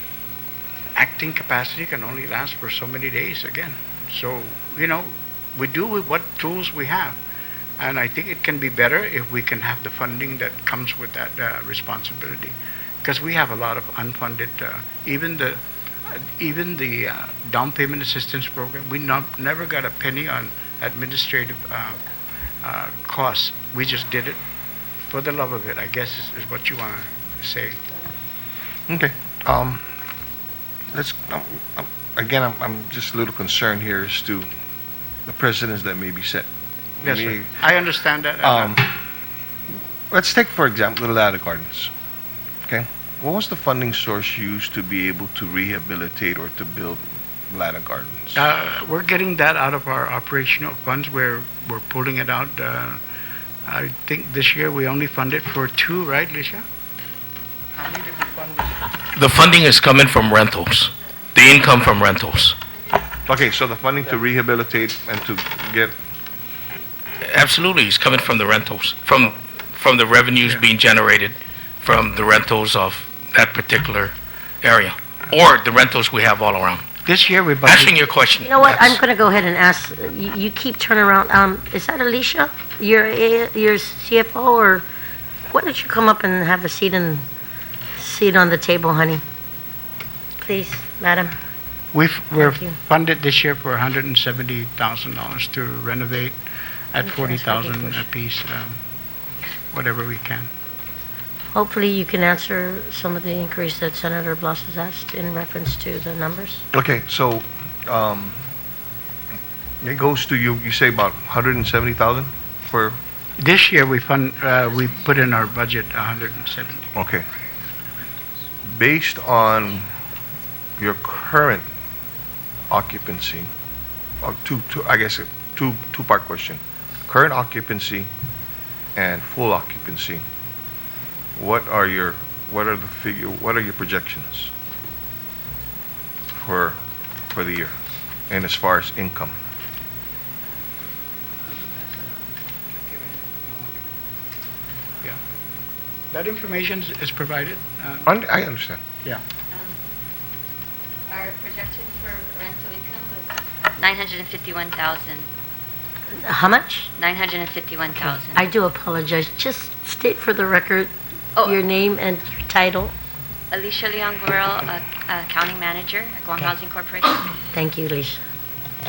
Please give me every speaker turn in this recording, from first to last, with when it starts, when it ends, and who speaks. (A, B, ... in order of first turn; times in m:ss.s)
0:00.9-0:07.2 A
0:07.8-0:22.0 A
0:22.6-0:24.4 A
0:25.1-0:27.8 A
0:28.9-0:29.8 B
0:30.9-0:34.5 B
0:35.2-0:36.5 B
0:37.0-0:37.5 B
0:37.0-0:38.8 A
0:38.4-0:38.9 B
0:40.1-0:41.9 B
0:42.7-0:48.4 B
0:48.3-0:53.0 A
0:53.6-0:56.6 A
0:57.8-0:58.8 A
0:59.1-1:02.6 C
1:03.2-1:05.9 B
1:07.2-1:16.9 C
1:17.0-1:17.9 A
1:17.6-1:19.0 C
1:18.4-1:24.8 D
1:25.5-1:27.2 D
1:28.0-1:29.2 D
1:30.4-1:31.3 D
1:31.9-1:36.4 A
1:32.4-1:32.7 D
1:36.9-1:38.8 A
1:37.0-1:38.0 D
1:39.7-1:40.5 A
1:41.5-1:46.6 D
1:46.7-1:48.4 B
1:49.8-1:53.0 B
1:53.4-1:56.9 A
1:56.9-1:57.3 B
1:58.6-1:59.9 B
2:00.8-2:01.7 B
2:02.7-2:03.5 B
2:04.2-2:08.1 B
2:09.0-2:10.2 B
2:11.4-2:14.5 B
2:16.3-2:16.8 B
2:17.3-2:17.8 B
2:18.3-2:19.4 B
2:21.5-2:22.1 A
2:22.7-2:23.8 A
2:26.1-2:28.1 A
2:28.0-2:28.8 B
2:29.5-2:29.8 E
2:31.1-2:35.3 E
2:36.2-2:36.9 D
2:37.0-2:38.5 E
2:38.3-2:40.9 D
2:41.4-2:42.9 D
2:43.5-2:47.3 E
2:47.5-2:48.2 D